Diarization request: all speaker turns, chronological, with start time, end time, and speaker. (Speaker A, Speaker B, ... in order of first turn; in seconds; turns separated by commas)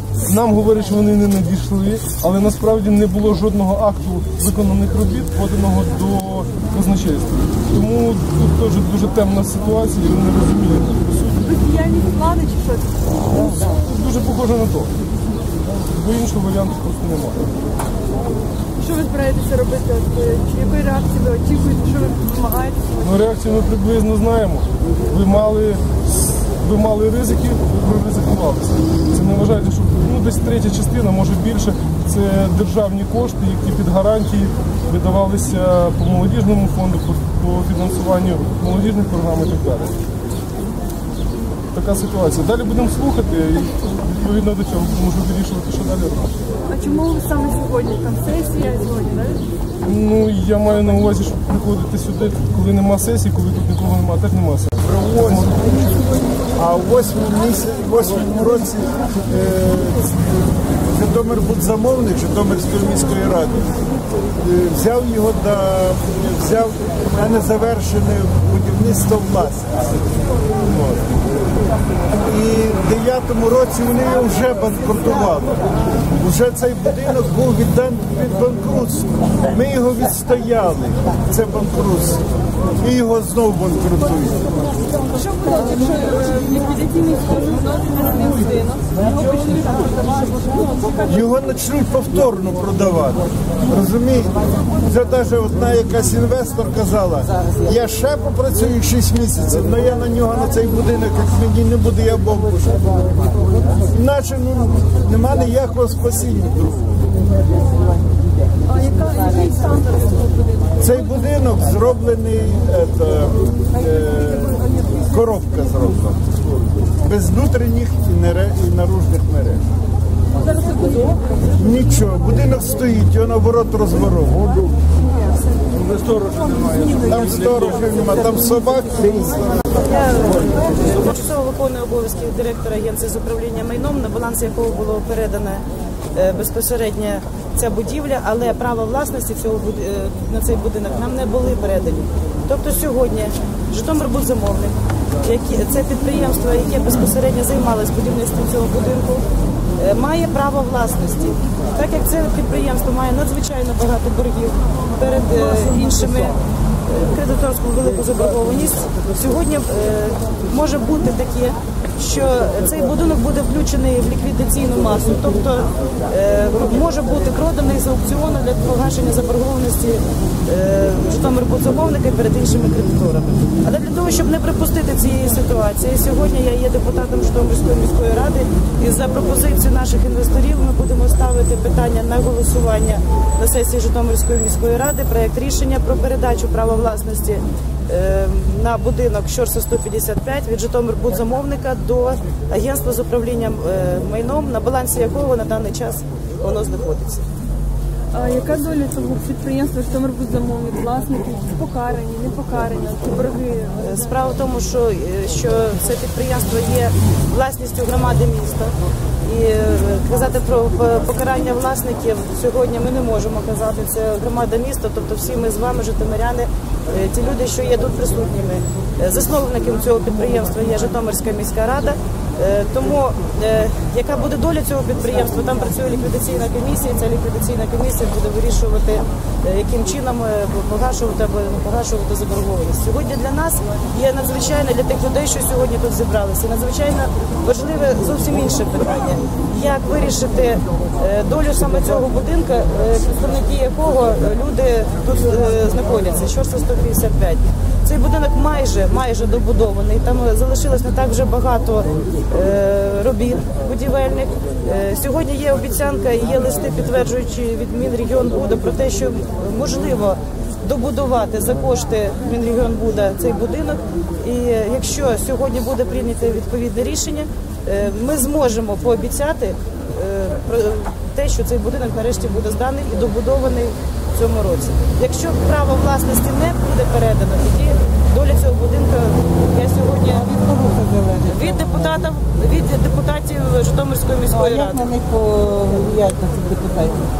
Speaker A: 0.2-11.4, Speaker B: 11.4-13.1, Speaker A: 13.3-14.9, Speaker A: 15.8-17.5, Speaker B: 18.7-23.0, Speaker A: 23.0-39.9, Speaker A: 41.7-46.2, Speaker B: 46.6-49.5, Speaker A: 49.8-55.7, Speaker C: 54.9-55.6, Speaker C: 56.5-60.1, Speaker C: 60.9-63.8, Speaker C: 64.4-69.9, Speaker C: 70.7-71.0, Speaker C: 72.2-82.2, Speaker C: 82.8-84.6, Speaker B: 85.1-91.1, Speaker C: 91.1-102.8, Speaker C: 103.9-107.1, Speaker B: 108.7-110.7, Speaker C: 110.8-116.2, Speaker C: 117.0-119.6, Speaker B: 120.4-121.3, Speaker C: 121.5-124.7, Speaker A: 125.8-127.5, Speaker C: 127.0-129.6, Speaker D: 129.8-197.2, Speaker B: 198.1-203.8, Speaker D: 203.8-280.5, Speaker E: 280.4-281.7, Speaker D: 281.2-284.9, Speaker E: 284.4-287.1